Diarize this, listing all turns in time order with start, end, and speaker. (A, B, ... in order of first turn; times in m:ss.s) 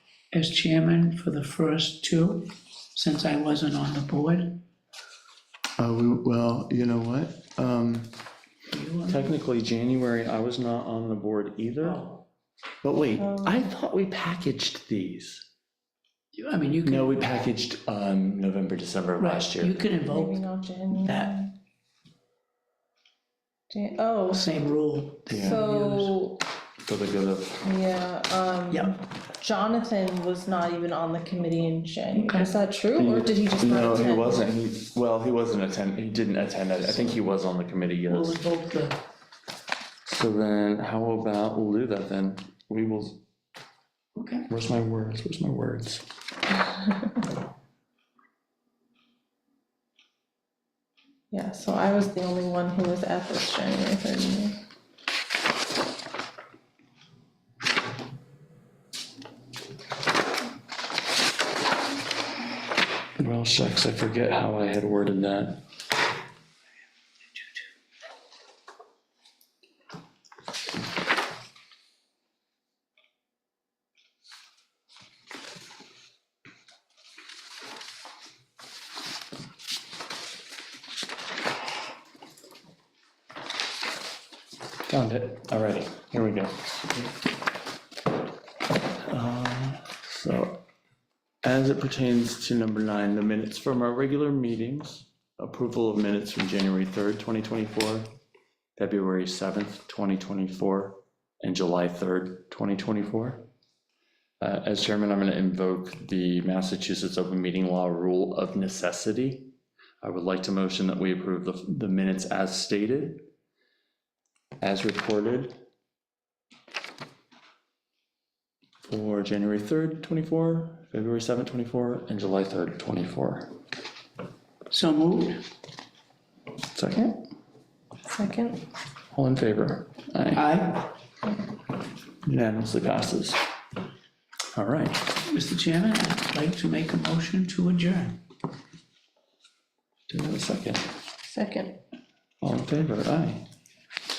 0:00.3-0:04.6 A
0:05.8-0:08.2 B
0:08.7-0:09.4 A
0:09.1-0:12.0 B
0:11.8-0:12.2 A
0:12.8-0:15.5 B
0:13.2-0:13.6 C
0:16.3-0:17.2 A
0:16.8-0:19.8 B
0:19.2-0:21.4 A
0:20.0-0:21.5 C
0:23.7-0:24.7 C
0:24.3-0:26.2 A
0:25.3-0:25.6 B
0:25.3-0:26.4 C
0:26.8-0:27.6 B
0:27.6-0:34.5 C
0:32.2-0:32.5 A
0:33.0-0:38.4 B
0:36.8-0:37.1 A
0:38.1-0:39.0 A
0:40.1-0:43.2 B
0:44.2-0:44.5 A
0:44.5-0:46.0 B
0:51.3-0:54.6 C
1:03.2-1:05.6 B
1:24.9-1:27.1 B
1:29.0-1:30.6 B
1:31.4-1:38.1 B
1:38.8-1:43.4 B
1:44.4-1:53.3 B
1:54.6-1:55.6 B
1:58.9-2:03.6 B
2:04.7-2:05.5 A
2:06.7-2:07.3 B
2:08.1-2:08.6 C
2:09.1-2:10.4 B
2:10.3-2:10.9 A
2:12.2-2:13.4 B
2:14.5-2:15.1 B
2:15.2-2:18.2 A
2:20.1-2:20.8 B
2:21.3-2:21.8 C
2:22.4-2:23.5 B